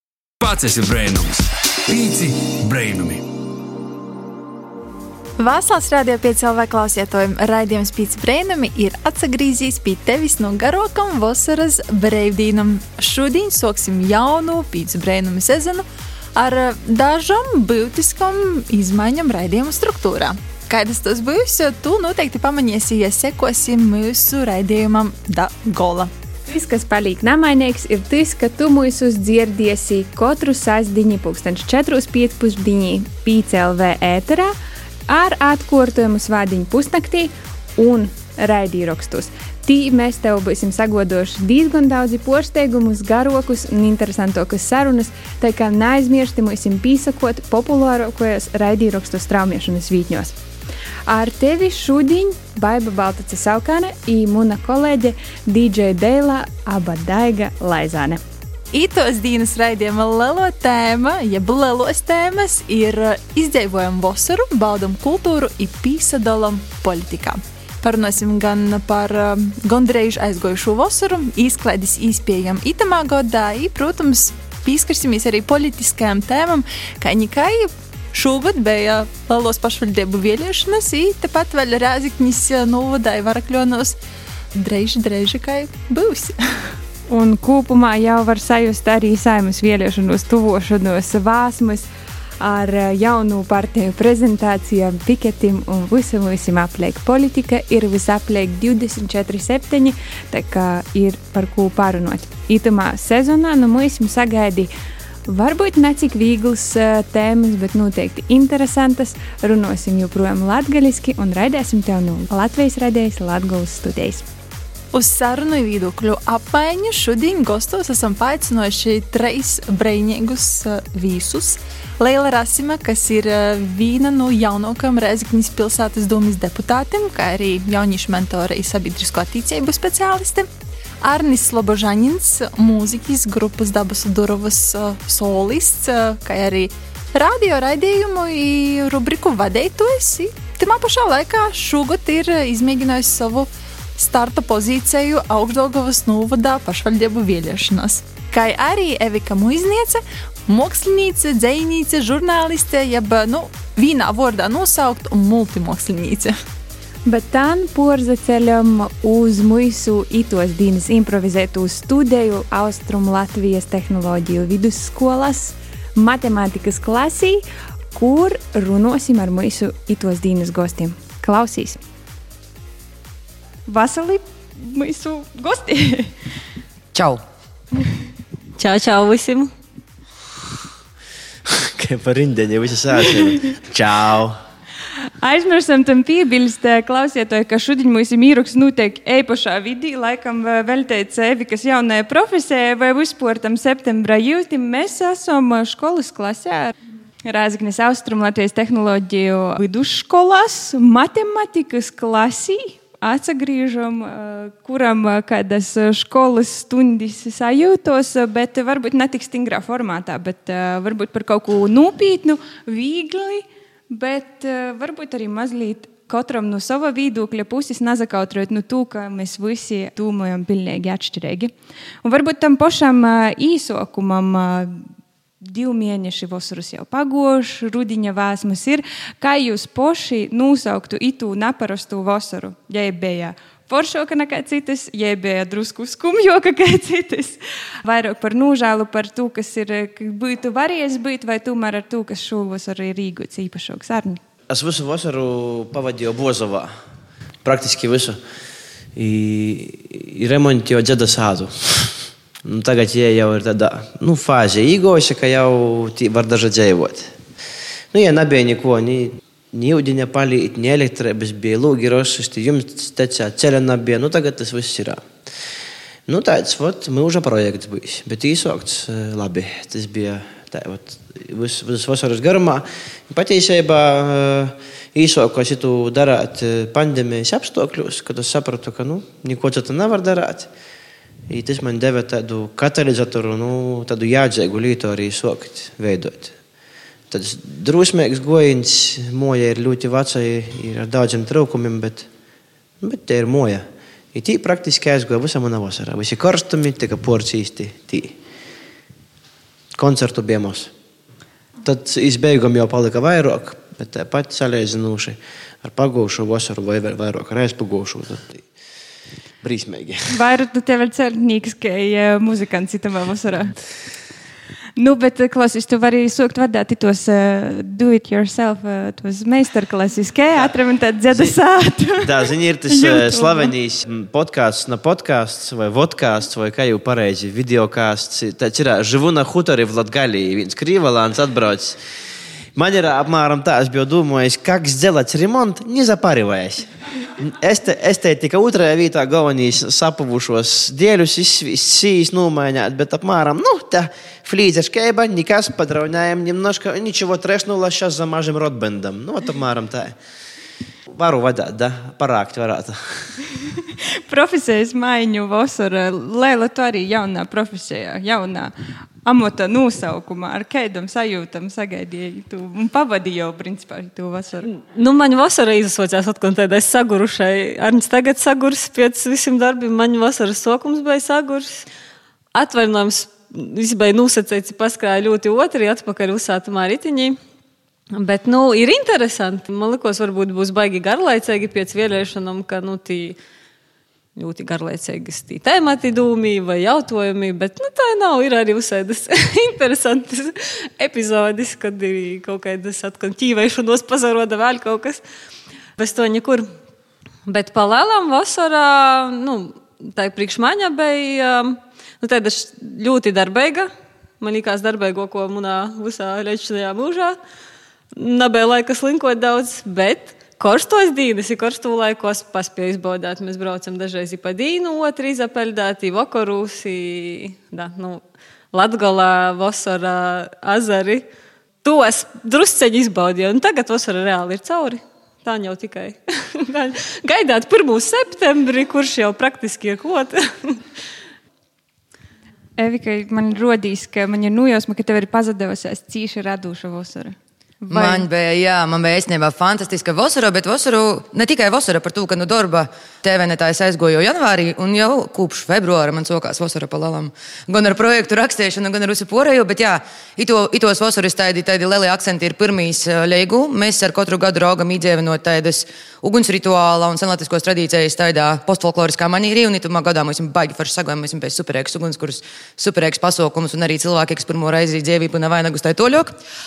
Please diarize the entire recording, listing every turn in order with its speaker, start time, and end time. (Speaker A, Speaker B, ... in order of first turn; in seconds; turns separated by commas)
Speaker A: 0.4-3.2, Speaker B: 5.4-26.1, Speaker C: 26.5-34.5, Speaker C: 35.1-50.4, Speaker C: 51.1-58.2, Speaker B: 58.7-84.0, Speaker B: 84.5-86.7, Speaker C: 87.1-91.9, Speaker C: 92.4-104.7, Speaker C: 105.3-114.2, Speaker B: 114.9-130.5, Speaker B: 131.0-156.3, Speaker C: 157.1-167.4, Speaker C: 167.9-171.8, Speaker C: 173.7-176.1, Speaker D: 176.9-177.2, Speaker E: 178.6-179.5, Speaker F: 181.5-184.4, Speaker C: 185.2-196.7, Speaker C: 197.2-221.5, Speaker C: 222.0-224.9, Speaker C: 225.4-244.2, Speaker F: 244.5-246.7, Speaker F: 247.4-248.2, Speaker F: 248.9-257.1, Speaker F: 257.9-265.1, Speaker F: 266.1-280.5, Speaker F: 281.3-286.3, Speaker F: 287.1-292.1, Speaker F: 292.8-298.1, Speaker F: 299.8-300.7, Speaker F: 301.6-308.4, Speaker F: 309.4-310.1, Speaker C: 310.1-313.5, Speaker C: 314.8-323.5, Speaker F: 322.0-331.8, Speaker F: 332.5-349.9, Speaker F: 350.9-353.1, Speaker C: 354.1-358.5, Speaker C: 359.0-364.5, Speaker E: 364.5-371.6, Speaker E: 372.3-377.1, Speaker E: 377.9-383.2, Speaker E: 384.1-395.0, Speaker E: 395.8-396.5, Speaker E: 397.2-403.7, Speaker E: 404.2-407.2, Speaker E: 407.9-418.0, Speaker E: 418.5-421.0, Speaker E: 421.6-430.6, Speaker C: 432.6-438.0, Speaker D: 437.7-466.1